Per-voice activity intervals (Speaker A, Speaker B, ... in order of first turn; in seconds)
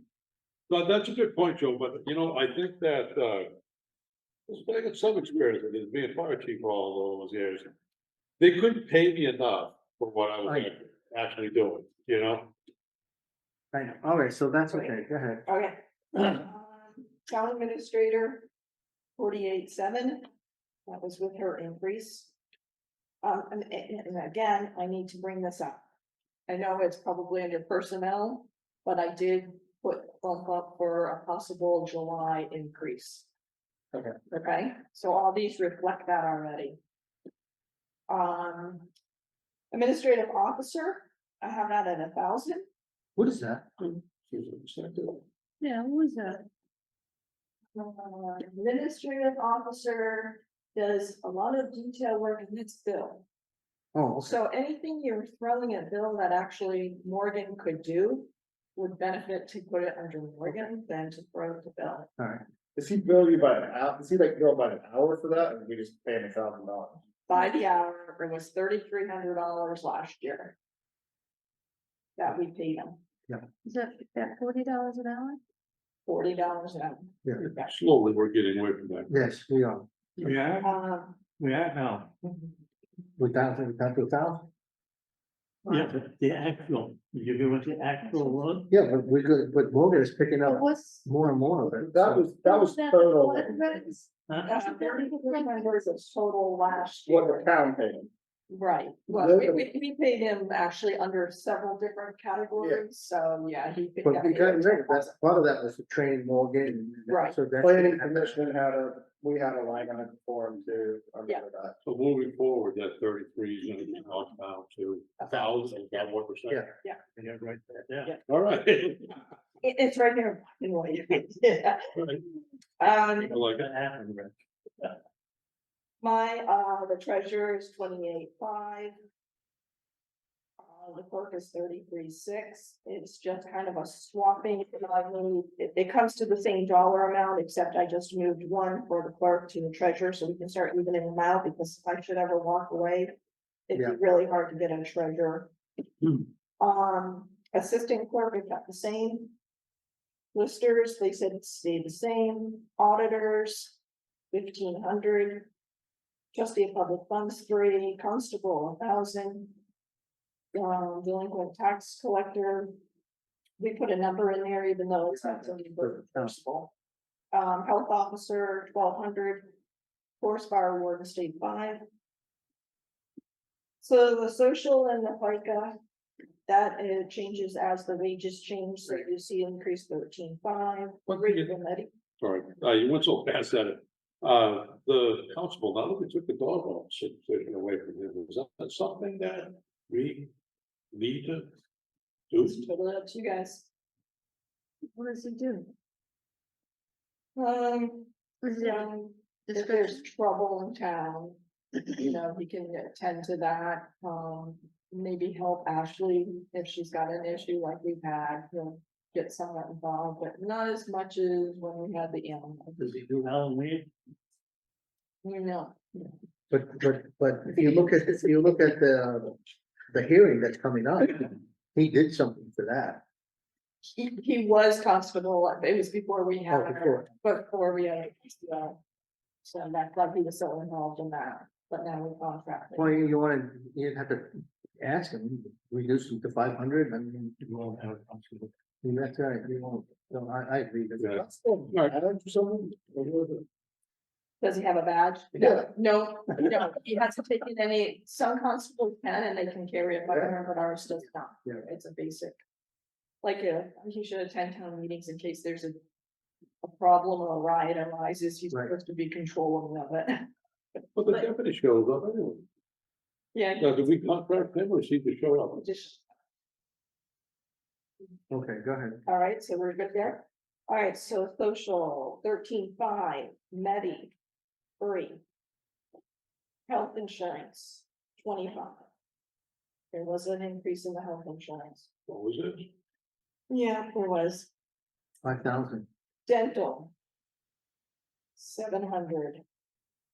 Speaker A: 0.7-3.5, 4.5-7.7, 8.4-12.5, 43.8-45.2, 77.5-79.1, 111.8-116.7, 118.3-119.2, 122.0-122.2, 123.2-123.7, 181.1-181.5, 182.2-190.3, 190.9-191.5, 192.3-192.6, 241.0-241.9, 261.0-262.4, 263.6-265.8, 282.1-282.7
Speaker B: 13.7-15.4, 43.2-43.7, 53.9-54.4, 62.2-62.4, 79.1-79.9, 83.2-84.5, 88.7-92.3, 104.0-108.3, 165.2-166.3, 216.5-219.3, 219.9-223.0, 226.5-227.1, 232.8-237.5, 238.8-242.2, 245.4-245.6, 268.3-269.0, 285.2-285.9
Speaker C: 14.7-18.5, 19.2-20.3, 20.9-22.3, 23.2-25.8, 26.5-33.3, 34.3-36.8, 38.1-38.9, 39.7-42.6, 47.7-53.2, 54.2-62.1, 67.3-70.6, 72.2-73.0, 76.1-77.7, 80.6-81.2, 94.5-97.6, 98.5-105.1, 107.1-107.4, 119.6-121.9, 122.8-123.3, 126.0-128.9, 130.6-143.2, 143.7-145.5, 146.6-149.3, 150.3-153.8, 154.3-155.5, 156.3-159.6, 160.5-162.7, 163.6-166.7, 167.3-169.5, 170.2-171.8, 173.8-175.8, 176.5-181.9, 192.4-193.7, 197.4-212.8, 215.2-216.1, 223.9-228.8, 229.4-233.0, 244.4-252.4, 253.2-255.8, 256.6-260.3, 263.3-263.7, 265.6-266.0, 269.1-274.1, 274.8-275.2, 276.7-278.9, 279.9-281.9, 283.5-284.5, 286.3-286.9, 288.4-289.4
Speaker D: 45.6-46.4, 73.7-75.4, 90.5-91.0, 92.4-95.7, 194.9-195.7, 198.4-198.9, 199.5-200.0
Speaker E: 62.8-67.0, 91.6-93.8, 97.1-98.1, 99.1-99.6, 107.6-111.8, 241.2-243.4
Speaker F: 80.2-80.7, 81.4-82.2, 85.7-88.7, 94.3-94.5, 117.2-118.1, 123.5-124.3, 212.8-213.9, 237.5-238.3